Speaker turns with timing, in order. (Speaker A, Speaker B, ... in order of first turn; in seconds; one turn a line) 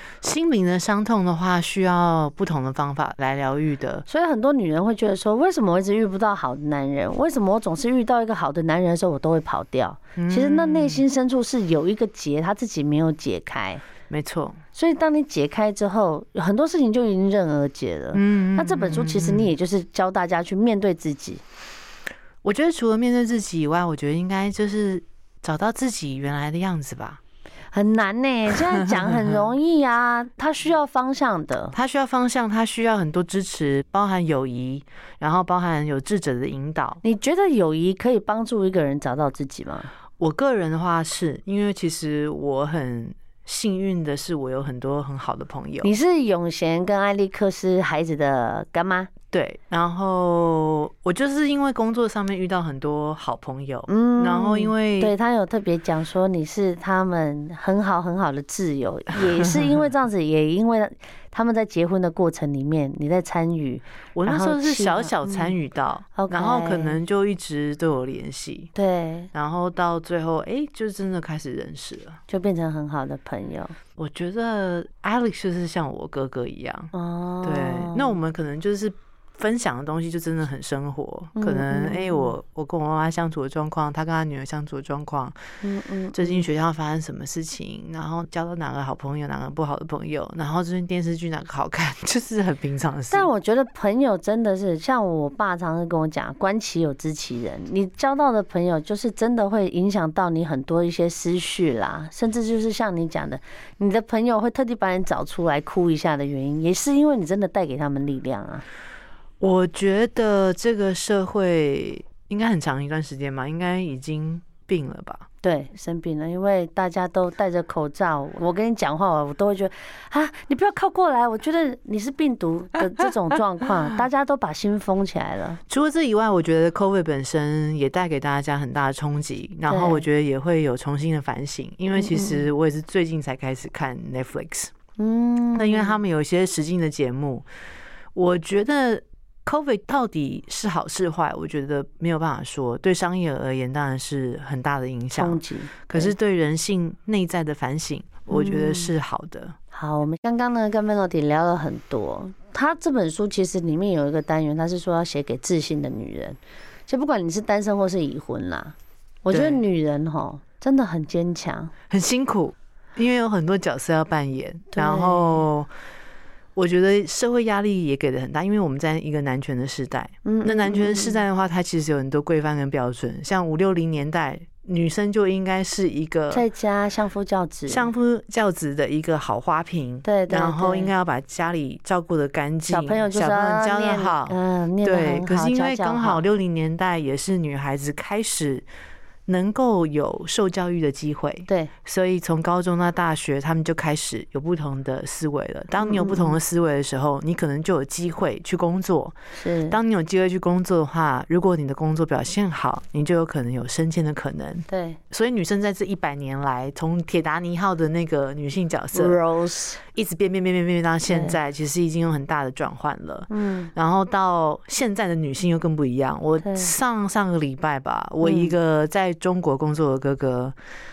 Speaker A: 0.2-4.1
Speaker B: 4.1-13.8
Speaker A: 10.2-11.1
Speaker A: 14.1-14.6
Speaker B: 14.8-21.4
Speaker A: 18.1-19.5
Speaker A: 22.4-27.2
Speaker B: 27.7-31.8
Speaker A: 28.8-29.3
Speaker A: 31.7-37.0
Speaker B: 37.0-39.9
Speaker A: 40.2-45.9
Speaker B: 45.8-49.1
Speaker A: 49.3-55.1
Speaker B: 53.9-65.5
Speaker A: 59.4-59.7
Speaker A: 64.1-68.7
Speaker B: 66.2-67.0
Speaker B: 68.8-69.3
Speaker A: 69.3-72.2
Speaker B: 72.3-73.8
Speaker A: 74.0-76.9
Speaker B: 76.9-78.2
Speaker A: 77.4-85.4
Speaker B: 81.4-82.3
Speaker B: 85.6-86.5
Speaker A: 86.1-93.3
Speaker B: 93.1-108.6
Speaker A: 109.4-115.2
Speaker B: 115.4-125.6
Speaker A: 125.7-134.7
Speaker B: 129.7-130.1
Speaker B: 132.0-132.5
Speaker B: 135.0-136.0
Speaker A: 135.5-137.5
Speaker A: 138.1-149.6
Speaker B: 145.1-146.1
Speaker B: 148.3-148.9
Speaker B: 149.7-161.7
Speaker A: 159.3-159.6
Speaker A: 161.9-165.7
Speaker B: 164.7-165.4
Speaker A: 166.6-176.4
Speaker B: 170.2-171.2
Speaker B: 176.3-177.9
Speaker A: 177.7-188.7
Speaker B: 180.0-180.9
Speaker B: 182.7-186.2
Speaker A: 189.2-199.1
Speaker B: 195.8-196.4
Speaker B: 199.4-199.8
Speaker A: 199.7-209.2
Speaker B: 204.7-205.0
Speaker B: 208.9-209.8
Speaker A: 209.9-220.6
Speaker B: 211.1-211.4
Speaker B: 213.3-213.7
Speaker B: 216.4-216.7
Speaker B: 218.2-218.5